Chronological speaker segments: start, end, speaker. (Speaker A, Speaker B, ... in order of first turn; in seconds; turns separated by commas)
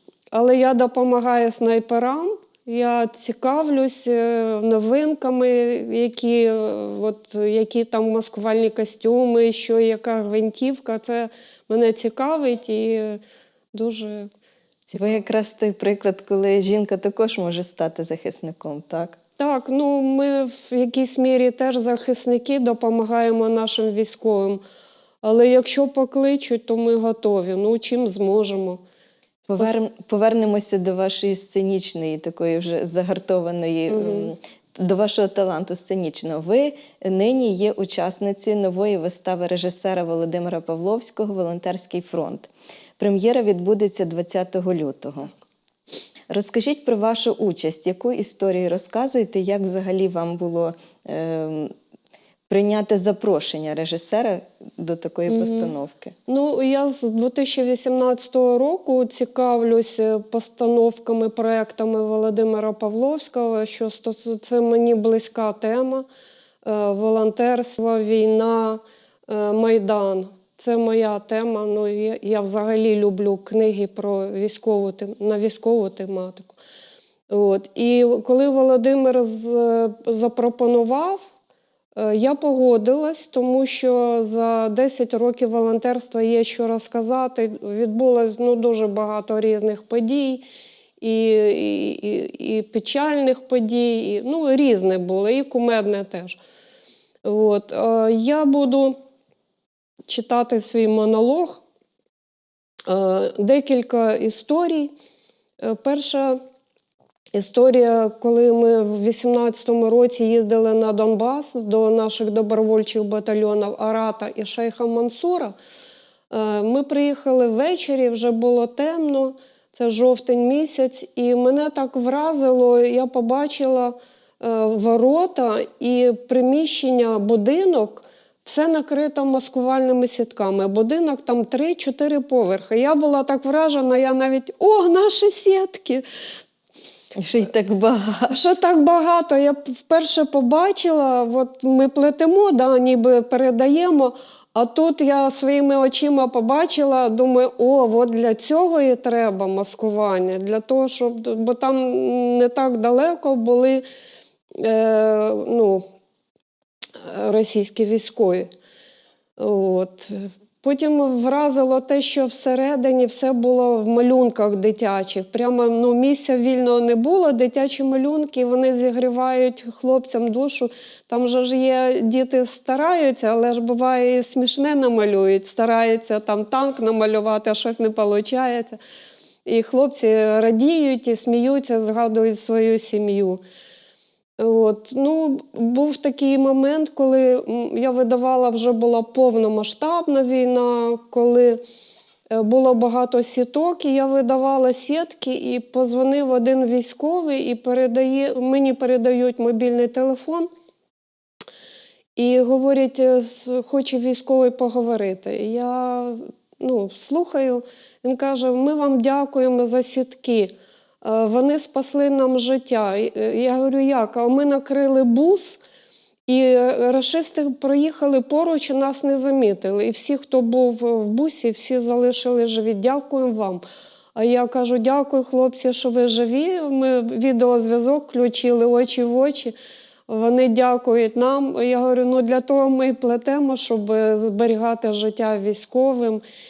Speaker A: 0.3-13.2, Speaker A: 13.7-14.3, Speaker A: 14.9-15.2, Speaker B: 14.9-19.2, Speaker A: 19.4-24.6, Speaker A: 25.2-28.8, Speaker B: 29.5-45.3, Speaker A: 33.9-34.3, Speaker B: 46.3-51.7, Speaker B: 52.5-56.1, Speaker A: 55.3-55.7, Speaker A: 56.3-66.0, Speaker A: 66.6-76.6, Speaker A: 77.3-81.2, Speaker A: 82.0-90.4, Speaker A: 91.0-96.4, Speaker A: 97.2-99.0, Speaker A: 100.1-101.6, Speaker A: 102.9-104.9, Speaker A: 105.6-106.4, Speaker A: 107.3-115.5, Speaker A: 116.3-136.0, Speaker B: 137.2-138.4, Speaker A: 138.3-153.8, Speaker A: 154.6-155.9, Speaker A: 157.0-158.5, Speaker A: 159.4-178.8, Speaker A: 179.5-183.4, Speaker A: 184.4-191.6, Speaker A: 192.3-200.5, Speaker A: 202.2-215.6, Speaker A: 216.3-223.6, Speaker A: 224.2-229.6, Speaker A: 230.1-236.2